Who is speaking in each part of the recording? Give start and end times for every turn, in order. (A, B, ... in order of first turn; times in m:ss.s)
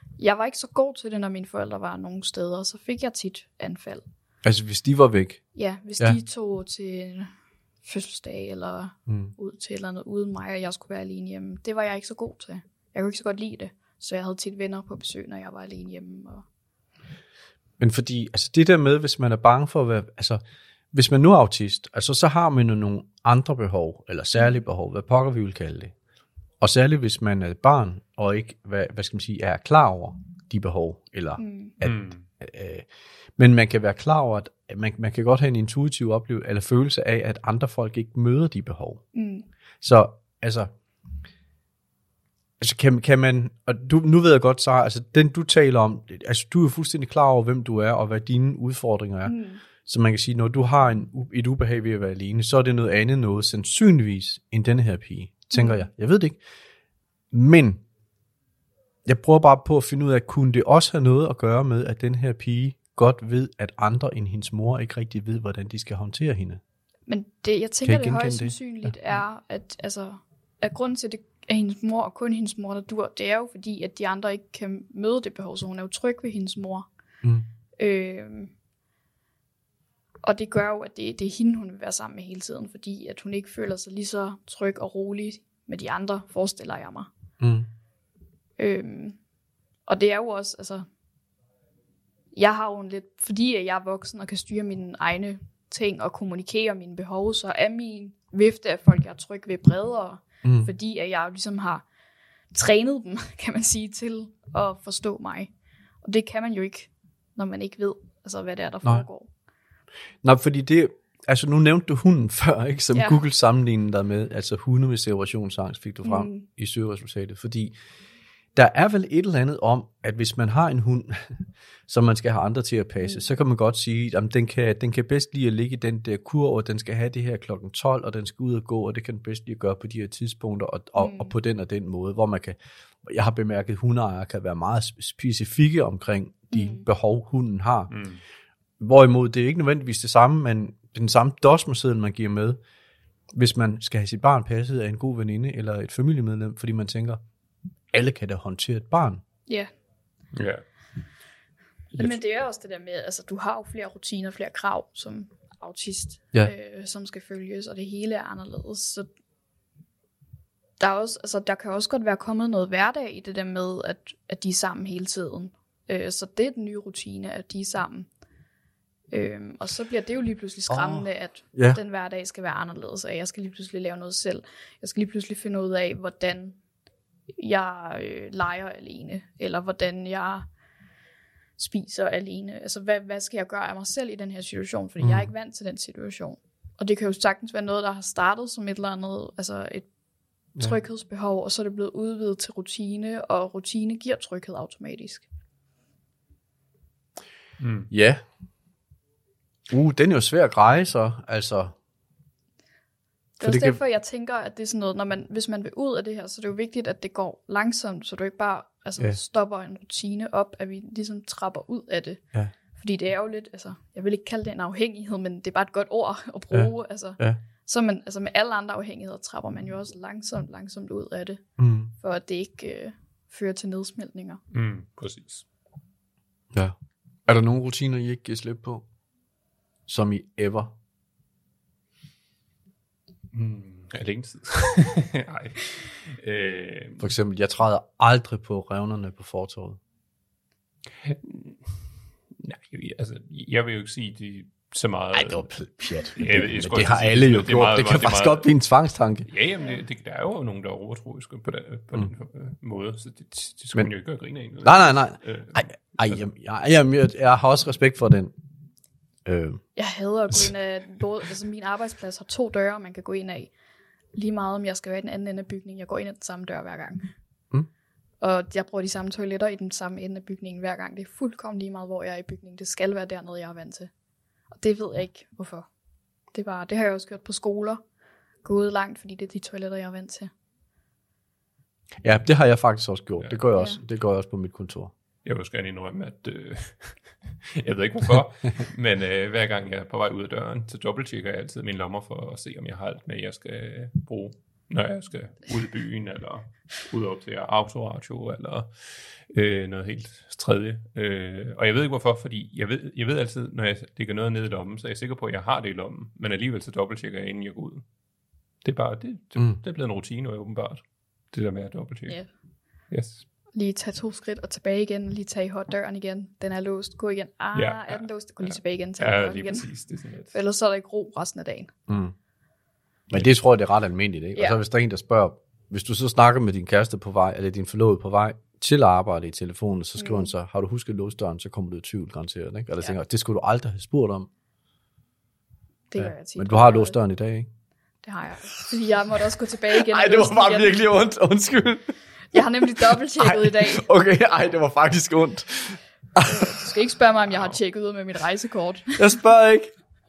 0:00.2-0:04.0 A
0:04.4-0:05.4 B
0:05.6-0:07.3 A
0:07.8-0:16.4 A
0:09.1-0:09.3 B
0:17.8-0:20.4 B
0:20.9-0:25.9 B
0:26.6-0:32.9 B
0:31.4-0:31.8 A
0:31.8-0:32.2 C
0:33.4-0:39.0 B
0:39.1-0:39.5 A
0:39.8-0:40.7 B
0:42.6-0:56.4 B
0:49.2-0:49.6 A
0:55.5-0:55.8 A
0:57.3-0:57.8 B
0:59.0-1:06.6 B
1:07.1-1:16.9 A
1:07.8-1:08.9 B
1:17.8-1:18.5 A
1:20.2-1:27.1 A
1:27.4-1:27.7 B
1:28.6-1:29.2 A
1:29.9-1:30.9 A
1:32.4-1:41.8 A
1:40.4-1:40.7 B
1:42.5-1:45.5 A
1:46.0-1:49.3 A
1:50.2-1:57.8 B
1:52.9-1:53.2 A
1:56.0-1:56.5 A
1:58.6-2:17.9 B
2:11.0-2:11.3 A
2:16.5-2:16.8 A
2:17.9-2:18.2 C
2:18.8-2:22.6 B
2:23.3-2:27.2 B
2:27.9-2:29.2 B
2:30.3-2:30.6 C
2:32.0-2:39.1 A
2:40.8-2:48.1 A
2:49.1-2:56.6 A
2:50.7-2:51.8 B
2:57.4-3:00.5 A
3:01.6-3:09.9 A
3:05.0-3:05.3 B
3:10.6-3:15.2 A
3:17.6-3:17.9 C
3:17.9-3:18.2 B
3:19.7-3:21.7 B
3:23.4-3:32.2 A
3:23.4-3:23.8 B
3:32.8-3:41.4 A
3:36.5-3:37.4 B
3:41.6-3:41.9 B
3:42.0-3:44.4 A
3:44.5-3:45.4 C
3:47.3-3:48.8 B
3:49.9-3:50.7 B
3:53.3-3:57.1 C
3:57.0-3:59.8 B
4:01.0-4:08.5 C
4:05.1-4:09.3 B
4:09.3-4:16.2 C
4:14.6-4:18.3 B
4:19.2-4:19.6 B
4:19.8-4:23.5 A
4:24.1-4:27.1 A
4:28.2-4:33.9 A
4:34.5-4:35.7 A
4:36.3-4:37.8 A
4:38.4-4:40.3 A
4:42.0-4:44.9 B
4:43.6-4:43.8 A
4:45.2-5:07.9 C
5:08.6-5:12.2 C
5:12.9-5:13.2 C
5:13.5-5:19.7 A
5:17.6-5:20.3 C
5:20.3-5:21.7 A
5:21.9-5:22.1 B
5:23.1-5:34.3 B
5:30.0-5:30.3 A
5:35.9-5:37.0 A
5:36.0-5:37.5 B
5:38.0-5:40.8 A
5:39.7-5:46.7 B
5:42.3-5:43.9 A
5:46.2-5:49.1 A
5:47.3-5:47.6 C
5:49.0-5:49.7 B